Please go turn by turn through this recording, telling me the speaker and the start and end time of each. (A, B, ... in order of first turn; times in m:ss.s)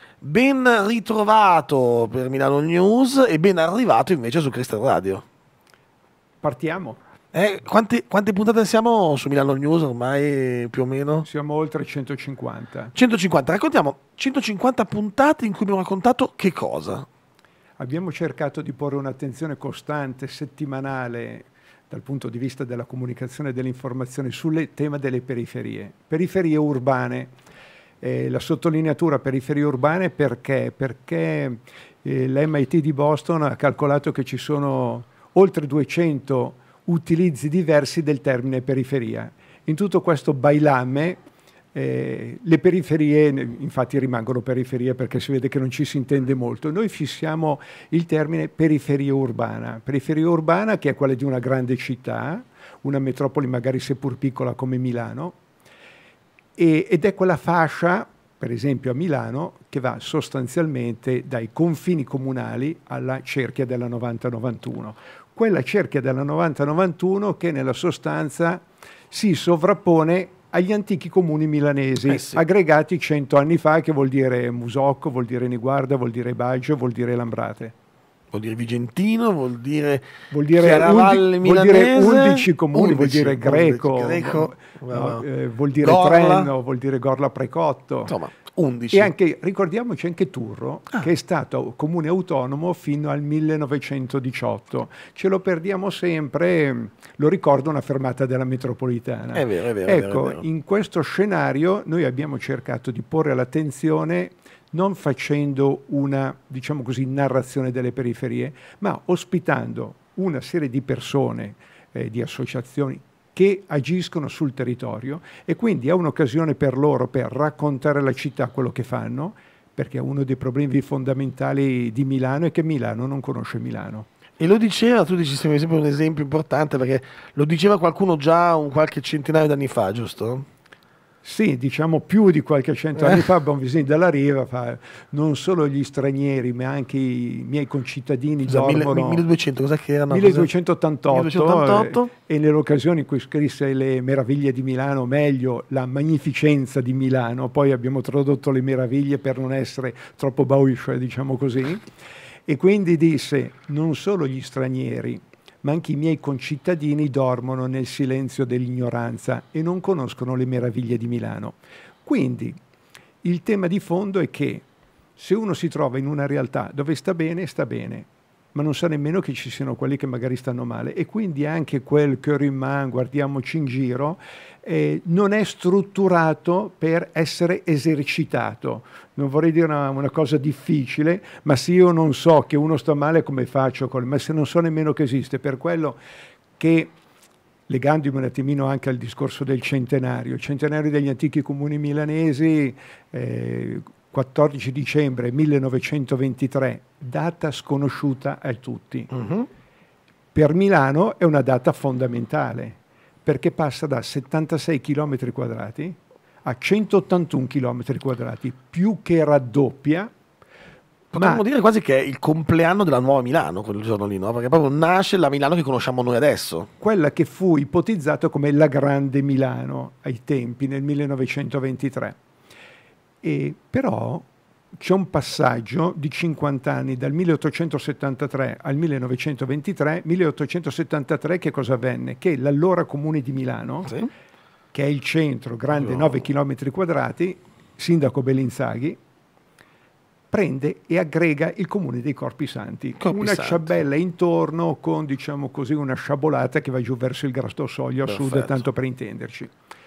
0:00.2-0:05.2 A
0:06.4-0:07.0 B
0:07.3-0:11.3 A
0:11.2-0:12.9 B
0:12.9-0:17.1 A
0:17.8-0:27.3 B
0:28.0-0:41.2 B
0:41.7-0:55.4 B
0:56.6-1:17.7 B
1:12.1-1:12.4 A
1:18.3-1:25.2 A
1:20.3-1:28.1 B
1:25.8-1:26.5 A
1:28.1-1:29.1 A
1:28.9-2:04.1 B
1:39.3-1:40.4 A
2:04.4-2:10.4 A
2:11.2-2:19.2 B
2:13.0-2:13.2 A
2:18.5-2:20.5 A
2:20.1-2:31.8 B
2:21.1-2:22.1 A
2:32.5-2:42.6 B
2:43.2-2:44.6 B
2:45.2-3:06.0 B
3:06.6-3:06.9 B
3:07.7-3:19.1 B
3:19.1-3:19.5 A
3:20.3-3:30.1 B
3:31.1-3:36.7 A
3:31.2-3:31.4 B
3:36.8-3:42.2 B
3:43.2-3:53.9 B
3:54.7-3:59.0 B
3:55.7-3:56.2 A
4:00.3-4:09.5 B
4:03.0-4:03.7 A
4:08.1-4:08.6 A